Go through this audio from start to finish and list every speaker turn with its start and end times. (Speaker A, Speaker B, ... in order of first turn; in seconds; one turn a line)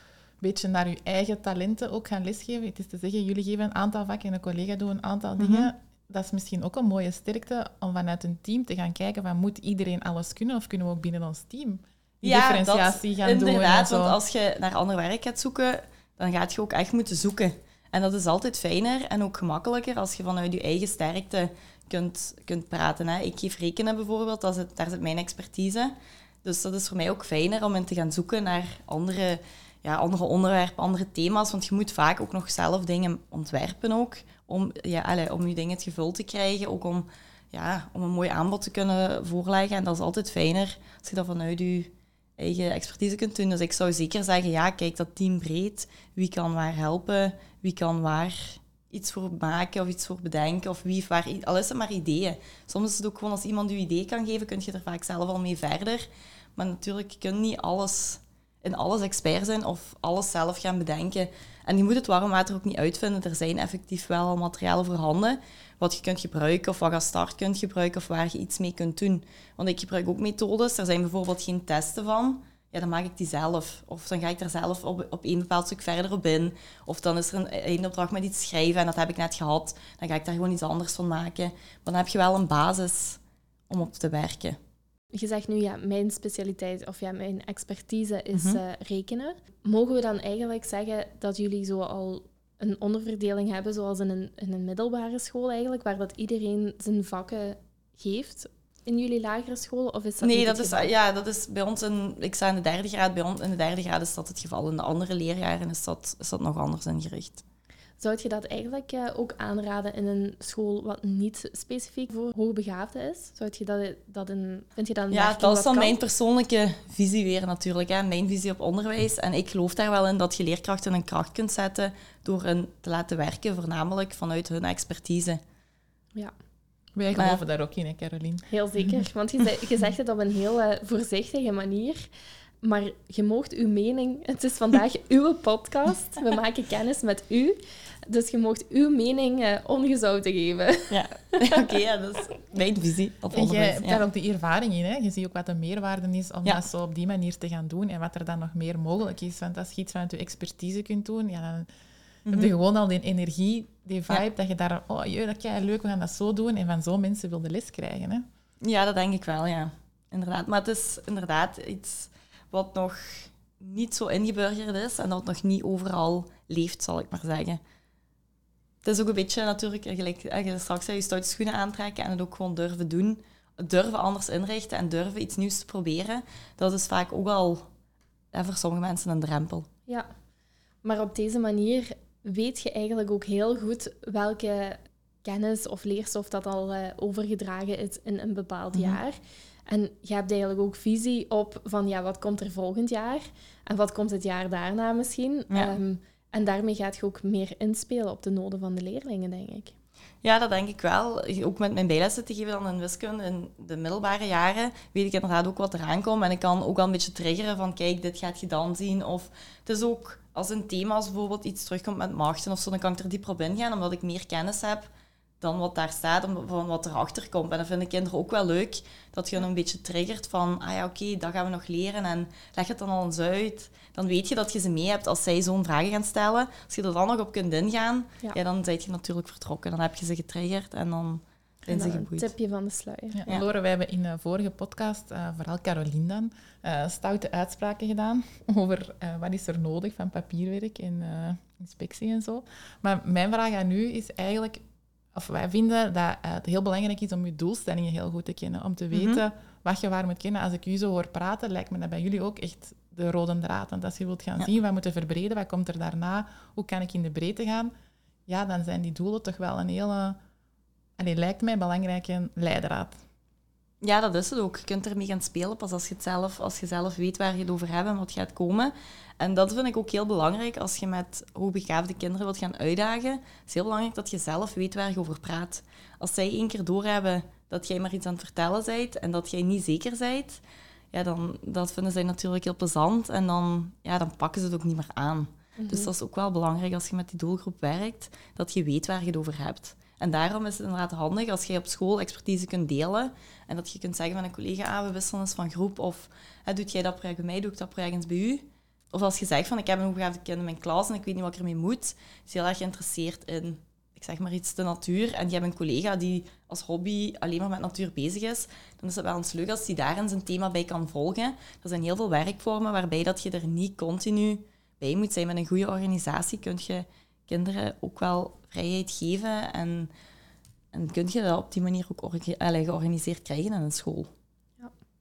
Speaker A: 0.4-14.2
Speaker B: 5.4-5.7
Speaker B: 12.2-84.6
Speaker C: 85.1-100.9
Speaker B: 88.3-88.6
Speaker B: 100.2-107.4
Speaker C: 108.0-116.0
Speaker B: 115.1-125.4
Speaker A: 127.0-129.1
Speaker B: 127.1-127.4
Speaker C: 128.5-132.1
Speaker C: 132.6-141.7
Speaker B: 140.9-144.0
Speaker A: 143.3-151.7
Speaker B: 152.3-152.5
Speaker A: 152.3-158.3
Speaker B: 158.6-167.6
Speaker B: 168.8-177.7
Speaker B: 178.3-179.7
Speaker C: 180.8-199.7
Speaker B: 188.7-189.0
Speaker B: 195.5-195.8
Speaker B: 200.2-214.9
Speaker B: 215.4-232.3
Speaker C: 231.7-233.2
Speaker A: 233.1-244.6
Speaker A: 245.1-257.7
Speaker B: 248.9-249.2
Speaker A: 258.3-260.2
Speaker A: 261.0-263.0
Speaker B: 263.8-280.4
Speaker B: 280.9-319.9
Speaker C: 285.6-285.9
Speaker B: 320.7-324.1